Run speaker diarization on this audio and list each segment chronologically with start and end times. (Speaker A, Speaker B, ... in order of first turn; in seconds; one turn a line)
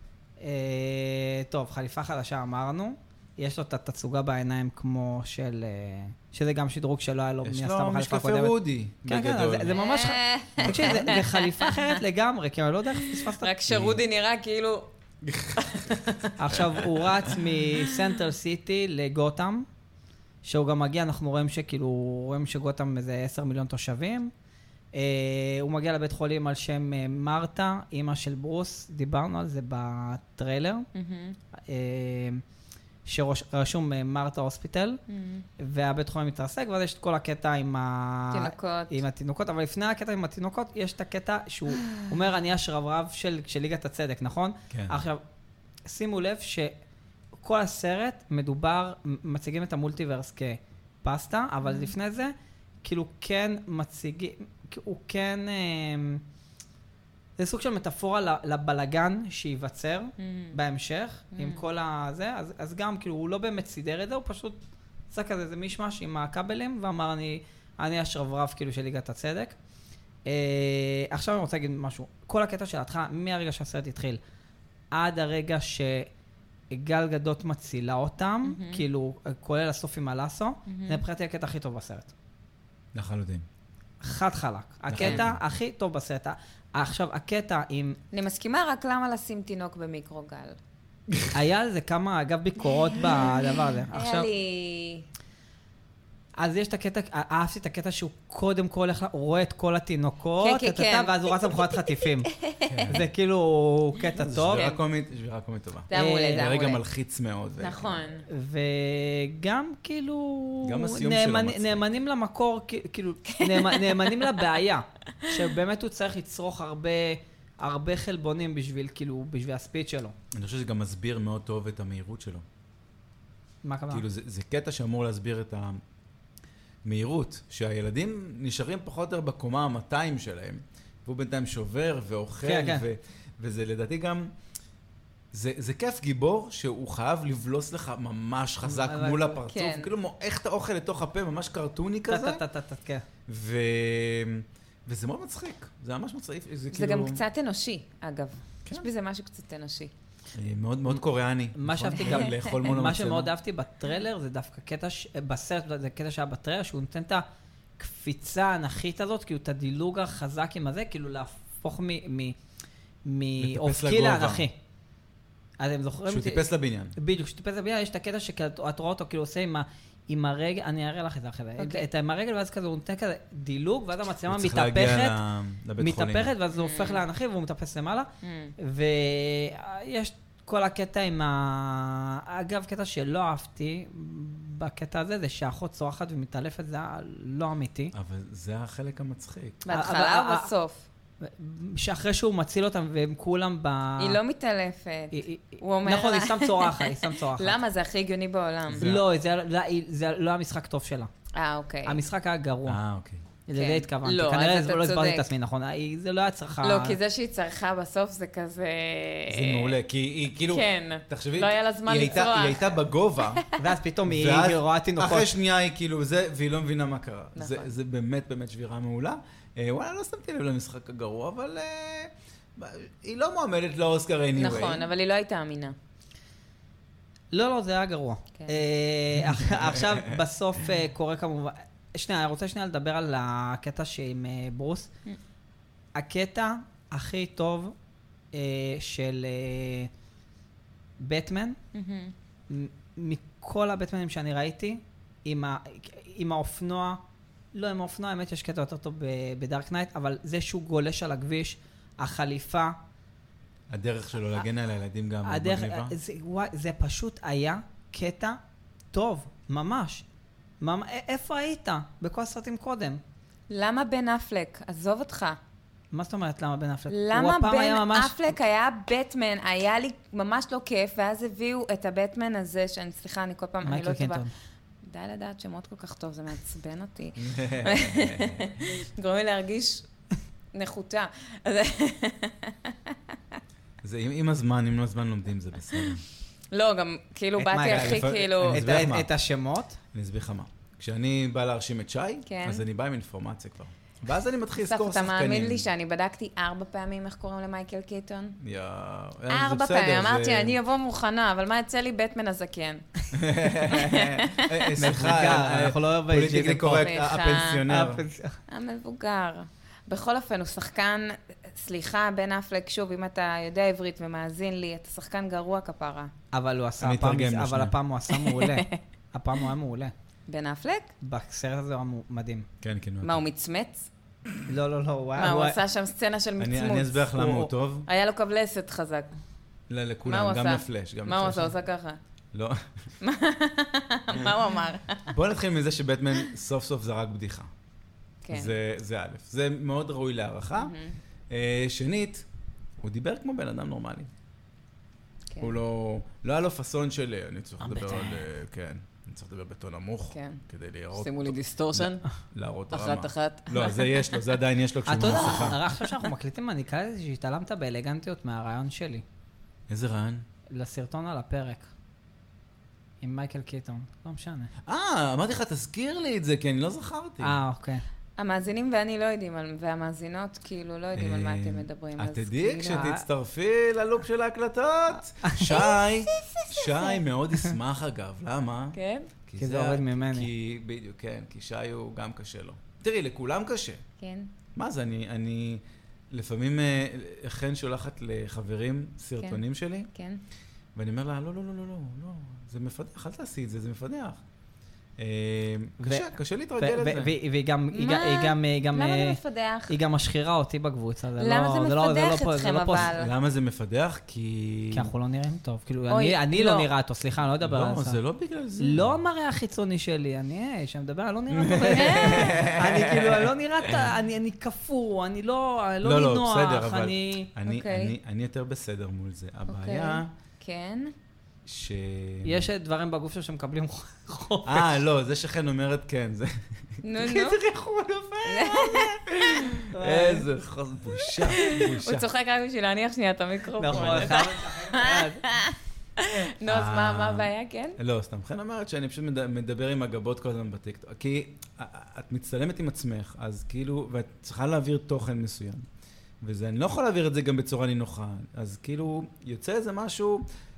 Speaker A: 0.4-13.5
Speaker B: 7.4-9.8
Speaker C: 9.7-12.0
Speaker B: 10.6-11.2
Speaker C: 13.1-14.9
Speaker B: 13.7-14.0
Speaker B: 15.2-16.9
Speaker C: 15.6-16.3
Speaker A: 16.4-19.7
Speaker A: 20.4-24.3
Speaker A: 24.9-30.9
Speaker C: 30.9-31.4
Speaker A: 31.6-32.4
Speaker A: 33.1-35.0
Speaker C: 35.1-35.5
Speaker A: 35.6-45.2
Speaker C: 38.3-39.0
Speaker B: 44.7-45.0
Speaker A: 45.9-46.7
Speaker A: 47.4-56.2
Speaker C: 51.6-51.9
Speaker A: 57.4-64.6
Speaker C: 60.2-60.6
Speaker C: 61.3-61.6
Speaker A: 65.1-69.6
Speaker A: 70.3-74.2
Speaker A: 74.9-76.1
Speaker A: 76.7-82.1
Speaker C: 78.5-78.8
Speaker C: 80.7-81.0
Speaker B: 82.9-83.5
Speaker A: 84.0-88.0
Speaker B: 84.9-85.4
Speaker C: 85.0-85.2
Speaker C: 88.1-90.6
Speaker A: 91.3-94.3
Speaker C: 92.9-95.0
Speaker A: 96.4-102.3
Speaker C: 100.4-102.8
Speaker B: 102.7-103.1
Speaker A: 102.9-104.7
Speaker B: 104.2-108.0
Speaker C: 104.5-104.8
Speaker C: 105.9-106.8
Speaker A: 105.9-106.5
Speaker C: 107.6-108.3
Speaker A: 108.3-120.2
Speaker B: 110.6-111.8
Speaker C: 113.4-114.1
Speaker B: 120.3-122.4
Speaker A: 123.6-124.0
Speaker B: 123.9-125.8
Speaker B: 126.8-134.3
Speaker A: 132.4-132.9
Speaker B: 135.3-142.4
Speaker A: 138.6-139.4
Speaker C: 139.5-139.9
Speaker A: 142.1-143.0
Speaker B: 143.3-147.2
Speaker C: 146.7-149.9
Speaker B: 150.3-153.3
Speaker A: 151.6-157.2
Speaker A: 157.8-162.4
Speaker A: 163.1-164.6
Speaker B: 163.4-164.5
Speaker A: 165.6-166.4
Speaker B: 166.1-166.9
Speaker A: 167.0-175.2
Speaker C: 171.6-171.8
Speaker B: 174.2-176.3
Speaker A: 175.8-187.9
Speaker C: 176.5-177.0
Speaker C: 178.2-178.5
Speaker B: 187.9-189.6
Speaker C: 189.7-190.8
Speaker A: 189.7-190.5
Speaker A: 191.2-194.2
Speaker C: 194.0-198.9
Speaker A: 195.1-197.6
Speaker B: 198.7-199.1
Speaker A: 198.8-201.1
Speaker C: 201.3-202.0
Speaker A: 201.9-202.8
Speaker B: 202.7-203.2
Speaker A: 203.5-207.0
Speaker C: 203.6-205.3
Speaker C: 206.6-209.8
Speaker B: 209.3-213.4
Speaker C: 210.5-213.6
Speaker A: 213.6-215.3
Speaker B: 214.1-224.9
Speaker C: 217.4-217.7
Speaker C: 224.4-225.8
Speaker A: 227.3-234.9
Speaker B: 229.2-230.2
Speaker A: 235.9-237.8
Speaker A: 238.3-239.9
Speaker A: 241.0-241.6
Speaker C: 241.7-242.1
Speaker A: 242.5-247.0
Speaker A: 247.5-252.8
Speaker B: 253.7-255.9
Speaker A: 255.2-258.4
Speaker A: 258.9-260.1
Speaker A: 260.6-263.0
Speaker C: 263.5-265.4
Speaker A: 265.9-268.4
Speaker C: 266.9-274.2
Speaker A: 273.6-274.3
Speaker C: 274.8-279.9
Speaker B: 277.2-278.6
Speaker C: 280.5-283.0
Speaker B: 283.8-286.0
Speaker C: 286.5-288.7
Speaker A: 287.4-289.8
Speaker B: 287.6-289.1
Speaker B: 289.9-295.7
Speaker C: 292.3-292.6
Speaker C: 294.6-298.4
Speaker B: 298.4-300.6
Speaker C: 299.3-303.1
Speaker B: 303.1-308.0
Speaker C: 303.6-304.7
Speaker A: 304.8-307.0
Speaker C: 306.8-307.7
Speaker A: 307.7-308.4
Speaker C: 308.5-316.1
Speaker A: 316.3-319.9
Speaker B: 316.8-317.7
Speaker C: 318.1-318.8
Speaker C: 320.3-320.9
Speaker A: 321.0-322.5
Speaker B: 322.6-323.2
Speaker C: 323.0-323.9
Speaker A: 324.5-325.6
Speaker C: 325.2-327.2
Speaker B: 326.4-327.9
Speaker A: 327.2-327.5
Speaker C: 327.9-329.1
Speaker B: 329.7-331.5
Speaker C: 330.1-332.0
Speaker B: 332.3-332.9
Speaker C: 333.0-335.1
Speaker B: 335.1-337.5
Speaker C: 338.2-338.6
Speaker B: 338.3-340.8
Speaker C: 340.6-341.0
Speaker B: 341.3-342.2
Speaker B: 342.8-344.1
Speaker B: 345.4-355.6
Speaker A: 347.6-348.2
Speaker C: 350.1-350.4
Speaker C: 350.9-352.0
Speaker C: 352.7-354.3
Speaker A: 354.9-359.0
Speaker C: 355.2-356.1
Speaker B: 359.7-360.2
Speaker A: 360.5-361.7
Speaker A: 363.0-364.5
Speaker B: 364.7-367.4
Speaker A: 367.2-367.8
Speaker C: 368.2-373.0
Speaker B: 370.9-383.8
Speaker A: 372.7-373.0
Speaker A: 375.2-375.6
Speaker C: 375.4-377.0
Speaker C: 378.8-379.1
Speaker A: 379.4-380.3
Speaker C: 384.0-384.3
Speaker B: 384.6-389.9
Speaker C: 389.9-390.2
Speaker B: 390.8-394.2
Speaker B: 395.0-397.1
Speaker A: 395.8-399.2
Speaker C: 397.7-399.8
Speaker A: 399.7-402.9
Speaker C: 401.2-403.1
Speaker B: 402.8-404.9
Speaker A: 404.7-408.0
Speaker C: 405.9-406.7
Speaker B: 407.4-409.0
Speaker A: 408.6-417.3
Speaker B: 411.3-413.9
Speaker C: 411.7-412.5
Speaker B: 415.8-420.1
Speaker C: 417.5-417.9
Speaker C: 419.5-420.9
Speaker B: 421.5-422.5
Speaker A: 422.2-424.7
Speaker B: 424.4-432.1
Speaker C: 426.8-427.4
Speaker C: 428.3-429.0
Speaker A: 429.7-430.3
Speaker C: 431.2-437.8
Speaker A: 433.6-435.3
Speaker B: 433.7-434.3
Speaker B: 436.5-445.6
Speaker B: 446.2-450.2